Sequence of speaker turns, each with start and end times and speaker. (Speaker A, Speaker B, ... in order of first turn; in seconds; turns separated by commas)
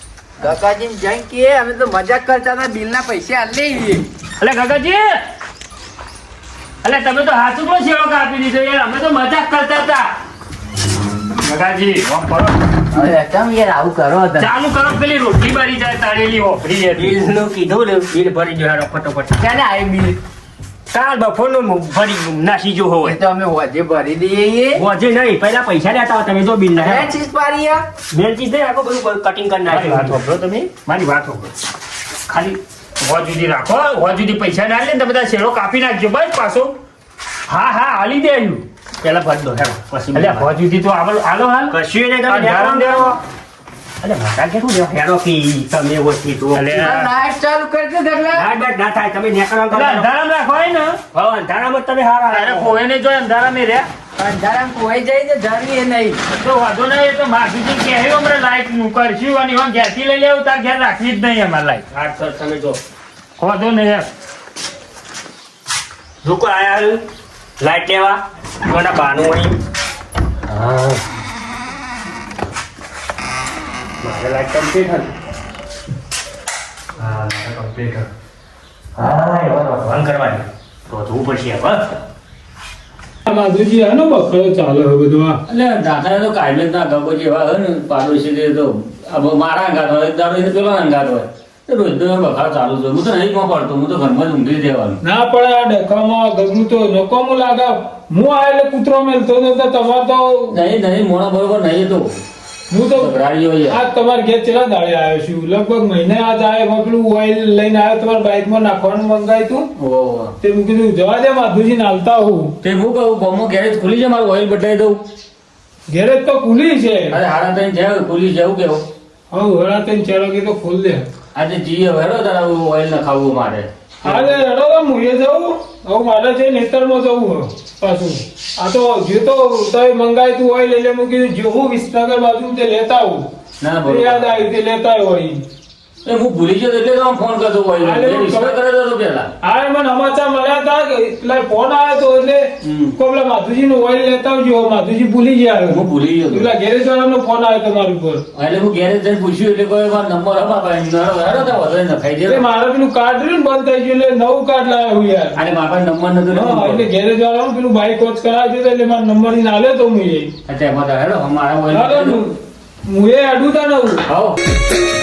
Speaker A: 0.4-4.0, Speaker B: 4.4-5.2, Speaker B: 6.8-10.1, Speaker B: 11.4-13.1, Speaker A: 12.9-14.5, Speaker B: 14.4-17.2, Speaker C: 16.9-19.4, Speaker A: 19.4-20.2, Speaker C: 20.9-23.2, Speaker A: 23.0-24.8, Speaker C: 24.7-27.1, Speaker A: 26.7-27.8, Speaker C: 28.1-30.2, Speaker B: 29.7-31.5, Speaker B: 32.3-36.7, Speaker B: 37.5-38.6, Speaker C: 39.0-40.5, Speaker B: 40.1-43.2, Speaker C: 41.7-43.2, Speaker C: 44.0-47.0, Speaker B: 46.5-47.1, Speaker A: 46.8-48.5, Speaker C: 48.3-50.1, Speaker B: 49.7-51.0, Speaker C: 51.1-52.8, Speaker B: 52.3-53.9, Speaker A: 54.2-56.2, Speaker B: 56.3-61.8, Speaker C: 61.9-62.8, Speaker B: 63.4-64.1, Speaker C: 66.2-67.0, Speaker C: 67.6-69.5, Speaker C: 70.5-71.0, Speaker C: 74.0-75.1, Speaker C: 77.0-78.1, Speaker C: 79.0-81.9, Speaker D: 83.2-85.4, Speaker E: 85.5-95.0, Speaker D: 95.0-100.6, Speaker E: 100.5-102.2, Speaker D: 102.7-109.7, Speaker E: 102.9-103.8, Speaker E: 109.8-110.3, Speaker D: 110.4-112.5, Speaker E: 112.6-115.0, Speaker D: 115.9-117.2, Speaker E: 117.1-118.8, Speaker D: 119.3-121.1, Speaker E: 121.3-124.4, Speaker D: 124.0-133.3, Speaker E: 133.6-134.4, Speaker D: 133.8-135.4, Speaker E: 136.0-139.3, Speaker D: 137.8-138.6, Speaker D: 139.4-148.2, Speaker E: 142.6-143.0, Speaker E: 145.7-146.5, Speaker E: 148.3-152.4, Speaker D: 152.3-155.4, Speaker E: 155.3-156.9, Speaker D: 156.3-160.3, Speaker E: 160.4-162.2, Speaker D: 161.7-164.0, Speaker E: 164.1-164.4